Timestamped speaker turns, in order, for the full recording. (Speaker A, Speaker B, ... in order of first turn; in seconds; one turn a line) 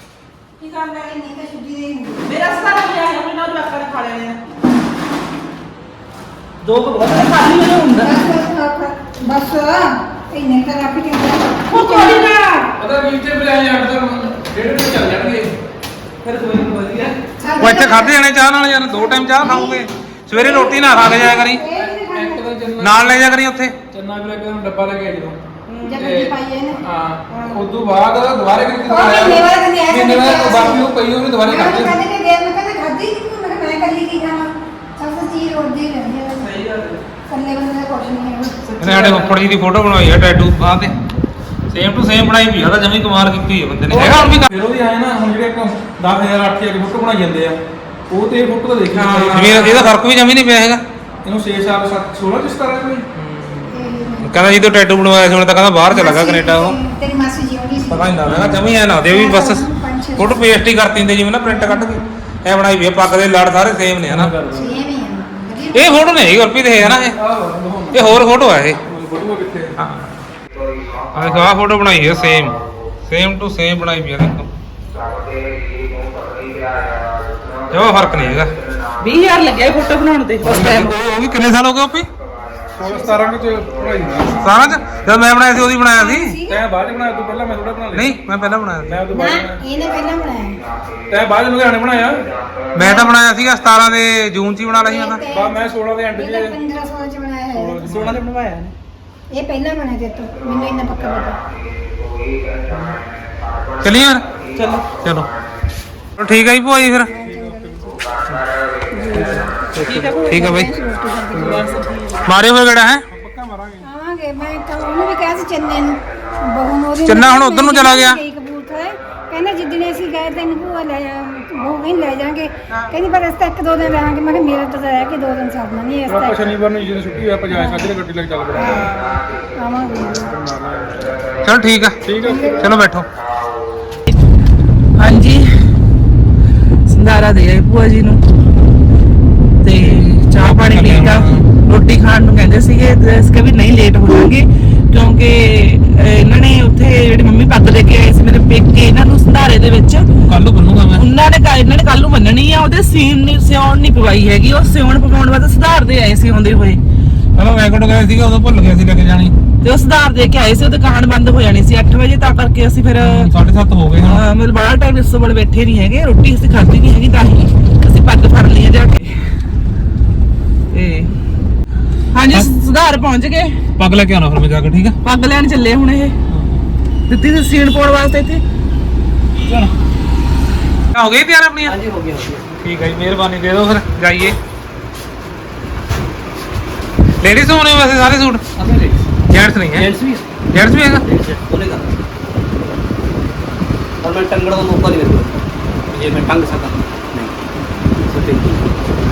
Speaker A: 0.6-2.5
Speaker B: 2.2-4.4
Speaker B: 6.6-8.2
Speaker A: 8.0-12.2
Speaker B: 11.7-12.7
Speaker C: 12.8-15.5
Speaker B: 16.2-17.1
Speaker A: 17.4-18.3
Speaker D: 17.6-21.6
Speaker A: 18.9-22.4
Speaker C: 21.7-23.1
Speaker D: 22.8-23.7
Speaker C: 23.9-25.4
Speaker B: 25.7-26.1
Speaker A: 25.8-26.9
Speaker C: 26.0-32.0
Speaker B: 27.3-27.6
Speaker A: 28.8-30.9
Speaker A: 31.4-36.5
Speaker B: 36.4-37.0
Speaker A: 37.3-38.7
Speaker B: 38.8-39.4
Speaker D: 38.8-40.9
Speaker D: 41.7-44.5
Speaker B: 43.9-44.4
Speaker C: 44.5-47.6
Speaker C: 48.1-49.8
Speaker B: 48.9-49.9
Speaker D: 49.3-50.8
Speaker C: 51.2-53.0
Speaker D: 53.1-53.7
Speaker A: 53.7-54.5
Speaker D: 54.2-56.8
Speaker A: 55.9-58.2
Speaker D: 57.9-59.6
Speaker C: 58.2-58.6
Speaker A: 59.0-60.8
Speaker D: 60.2-64.3
Speaker A: 61.4-62.1
Speaker C: 64.0-64.8
Speaker A: 64.5-66.2
Speaker D: 65.7-67.2
Speaker C: 66.8-68.2
Speaker D: 67.9-68.8
Speaker C: 68.8-69.7
Speaker D: 69.8-70.1
Speaker D: 71.1-74.5
Speaker D: 75.0-78.5
Speaker B: 79.0-80.9
Speaker D: 80.4-82.1
Speaker C: 82.8-84.5
Speaker A: 82.8-83.7
Speaker A: 84.3-84.7
Speaker D: 84.4-86.4
Speaker A: 86.0-86.6
Speaker C: 86.4-88.1
Speaker D: 87.9-89.0
Speaker C: 88.8-89.6
Speaker A: 89.1-90.6
Speaker C: 91.1-92.3
Speaker D: 92.7-95.2
Speaker A: 92.8-93.1
Speaker A: 94.8-98.0
Speaker C: 95.3-96.6
Speaker C: 97.5-98.2
Speaker B: 97.9-98.7
Speaker A: 99.3-101.4
Speaker D: 103.8-104.2
Speaker B: 104.5-104.8
Speaker D: 105.0-105.3
Speaker D: 106.2-107.1
Speaker A: 107.1-108.0
Speaker C: 107.3-107.8
Speaker A: 108.9-111.6
Speaker B: 109.8-110.5
Speaker D: 109.8-110.7
Speaker B: 111.3-112.3
Speaker D: 112.2-113.0
Speaker C: 113.1-113.9
Speaker A: 113.8-126.5
Speaker D: 117.0-118.2
Speaker C: 126.1-128.9
Speaker A: 127.5-127.9
Speaker B: 128.5-129.2
Speaker A: 129.6-130.3
Speaker C: 130.2-131.3
Speaker D: 131.4-132.0
Speaker C: 132.0-132.7
Speaker A: 132.2-132.7
Speaker D: 132.6-133.1
Speaker B: 134.9-135.5
Speaker B: 136.9-138.2
Speaker B: 139.6-150.1
Speaker D: 139.7-141.4
Speaker D: 150.2-151.0
Speaker B: 150.9-156.8
Speaker D: 157.3-159.3
Speaker B: 159.6-163.3
Speaker D: 163.0-164.2
Speaker B: 164.0-169.1
Speaker B: 170.7-171.1
Speaker B: 172.1-173.6
Speaker D: 173.8-174.9
Speaker B: 175.0-176.2
Speaker B: 177.1-178.4
Speaker D: 180.9-181.7
Speaker E: 181.7-182.5
Speaker D: 182.6-184.3
Speaker D: 187.2-188.4
Speaker E: 188.6-189.1
Speaker D: 189.3-189.8
Speaker E: 189.7-190.2
Speaker D: 190.5-191.0
Speaker E: 191.0-191.9
Speaker E: 194.0-195.4
Speaker E: 195.9-197.4
Speaker E: 197.9-198.8